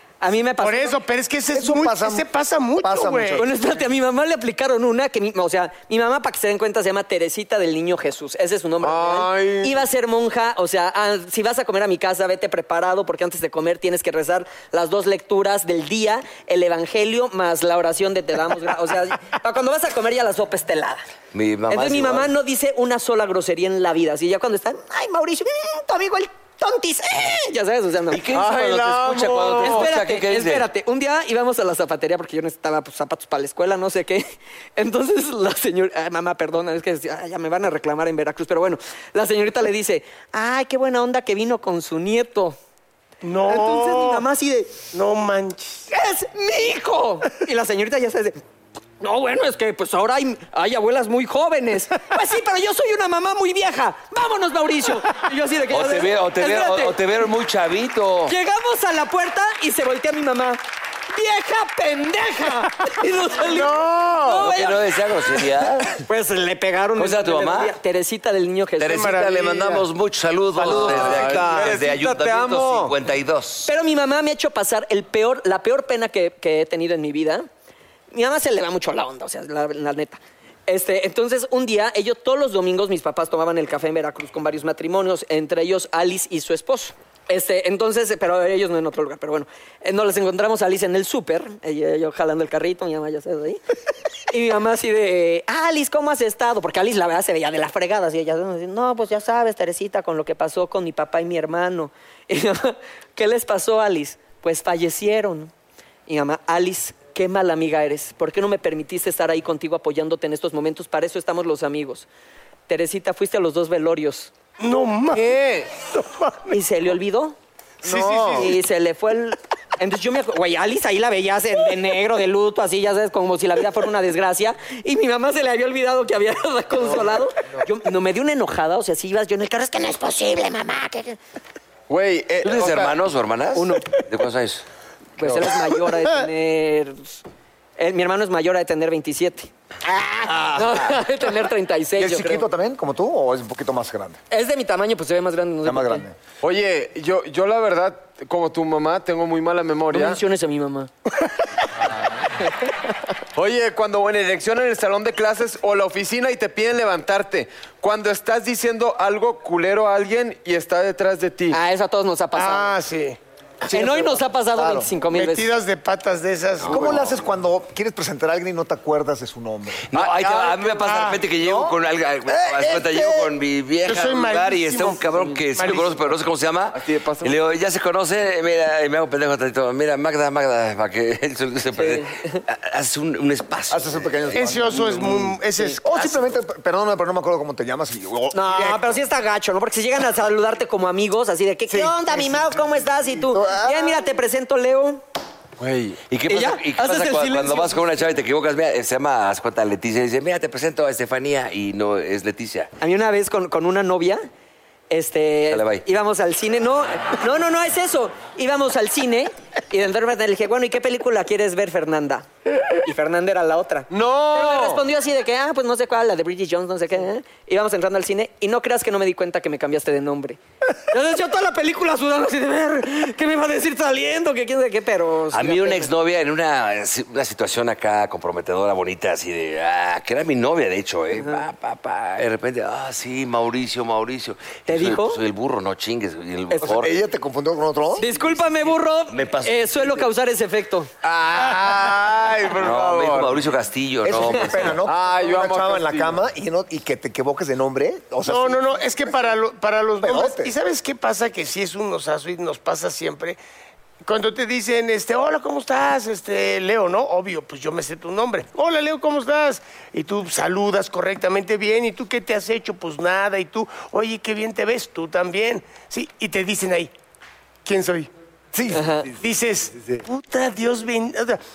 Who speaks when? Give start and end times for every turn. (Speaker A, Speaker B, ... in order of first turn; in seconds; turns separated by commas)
Speaker A: 0.2-1.0, Speaker B: 0.6-3.4, Speaker C: 1.5-2.2, Speaker C: 2.8-3.5, Speaker A: 3.4-21.0, Speaker D: 8.8-9.8, Speaker E: 21.3-22.3, Speaker A: 21.7-28.4, Speaker E: 28.1-30.6, Speaker D: 28.3-29.9, Speaker A: 29.6-34.3, Speaker A: 34.8-42.6, Speaker B: 43.2-44.2, Speaker A: 43.5-44.8, Speaker B: 44.8-45.9, Speaker A: 45.9-48.4, Speaker A: 49.0-57.0, Speaker E: 55.7-58.3, Speaker A: 58.3-64.8, Speaker B: 63.4-64.5, Speaker E: 64.5-65.9, Speaker A: 66.1-69.1, Speaker E: 67.0-67.7, Speaker E: 68.8-73.7, Speaker B: 68.9-69.8, Speaker C: 70.5-71.8, Speaker D: 70.7-72.9, Speaker A: 73.7-77.5, Speaker A: 78.1-93.6, Speaker A: 94.3-105.5, Speaker A: 106.1-112.1, Speaker A: 112.7-114.3, Speaker B: 114.6-116.5, Speaker A: 116.5-117.3, Speaker C: 117.8-118.3, Speaker B: 117.8-118.5, Speaker A: 118.2-131.2, Speaker D: 131.9-132.9, Speaker E: 132.4-134.7, Speaker A: 133.6-133.9, Speaker A: 135.2-137.2, Speaker A: 137.8-139.5, Speaker A: 140.5-142.4, Speaker C: 142.0-144.2, Speaker A: 144.3-146.0, Speaker C: 145.6-146.2, Speaker D: 146.4-150.2, Speaker A: 149.9-150.9, Speaker D: 153.3-161.6, Speaker A: 161.5-162.8, Speaker B: 162.3-163.2, Speaker C: 163.6-164.9, Speaker A: 163.7-165.5, Speaker B: 165.1-166.9, Speaker C: 166.7-170.4, Speaker E: 169.9-184.4, Speaker B: 170.8-171.2, Speaker C: 171.3-171.8, Speaker C: 172.3-173.3, Speaker B: 173.8-175.0, Speaker B: 175.6-175.9, Speaker D: 176.7-177.3, Speaker A: 181.8-182.4, Speaker C: 183.7-189.0, Speaker B: 184.3-186.2, Speaker A: 188.3-195.0, Speaker C: 191.7-192.4, Speaker C: 193.2-194.1, Speaker D: 195.6-196.0, Speaker E: 196.1-202.7, Speaker A: 196.3-197.8, Speaker A: 202.8-204.2, Speaker A: 204.9-212.3, Speaker E: 205.5-205.8, Speaker A: 212.8-225.9, Speaker D: 213.9-214.8, Speaker E: 225.3-236.9, Speaker A: 231.2-231.4, Speaker A: 234.7-235.2, Speaker C: 236.6-238.1, Speaker A: 238.0-240.9, Speaker E: 238.2-238.5, Speaker E: 239.1-240.1, Speaker D: 241.0-243.5, Speaker E: 242.6-244.7, Speaker C: 244.0-249.2, Speaker D: 244.8-246.1, Speaker B: 248.2-253.4, Speaker C: 250.0-250.5, Speaker B: 254.0-266.9, Speaker B: 267.6-268.1, Speaker C: 268.5-269.2, Speaker A: 268.7-269.1, Speaker B: 269.2-271.4, Speaker C: 269.8-270.0